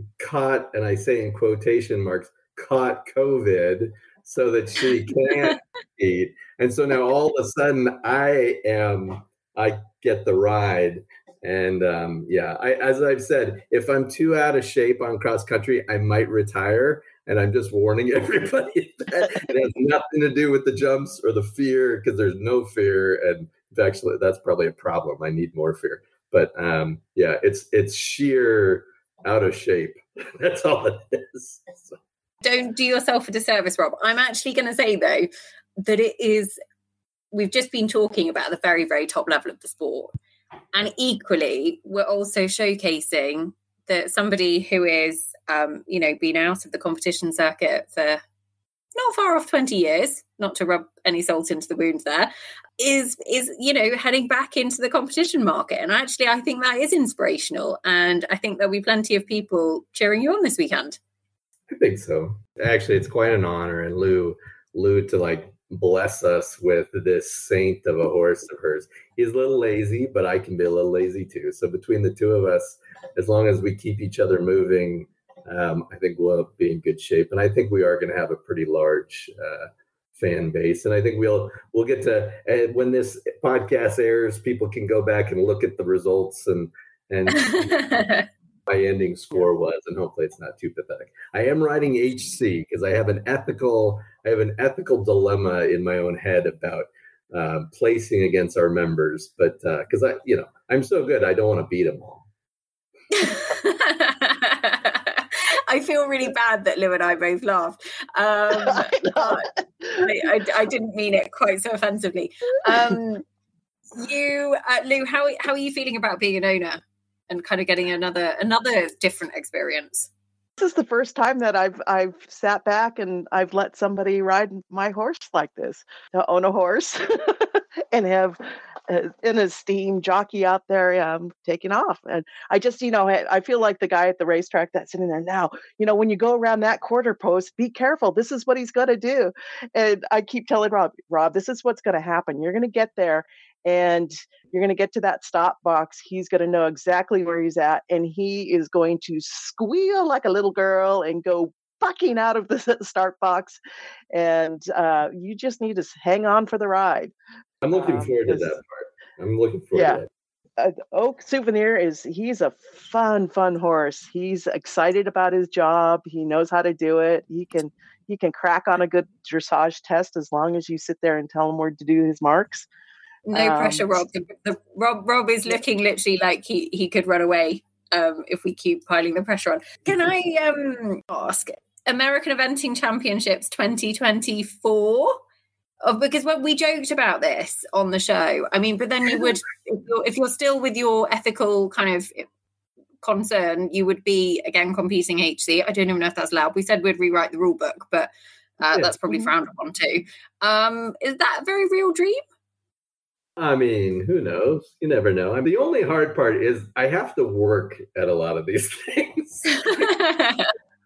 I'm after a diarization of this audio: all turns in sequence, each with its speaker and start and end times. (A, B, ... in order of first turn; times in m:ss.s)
0:00.2-0:32.0 A
0:32.4-0:35.3 B
0:35.8-0:36.6 B
0:37.3-0:40.1 B
0:40.7-0:48.2 B
0:49.0-1:01.0 B
1:01.7-1:28.0 A
1:27.4-1:28.2 B
1:28.7-1:42.2 A
1:43.1-1:53.2 B
1:48.5-1:50.1 C
1:53.9-2:00.1 B
2:00.6-2:33.6 C
2:34.1-2:37.1 C
2:37.6-2:40.1 A
2:37.7-2:38.5 C
2:40.6-2:52.7 C
2:53.3-3:05.2 B
2:53.3-2:54.0 C
3:05.8-3:12.3 B
3:13.0-3:22.2 B
3:18.7-3:19.3 A
3:23.4-3:30.0 A
3:29.6-3:30.5 B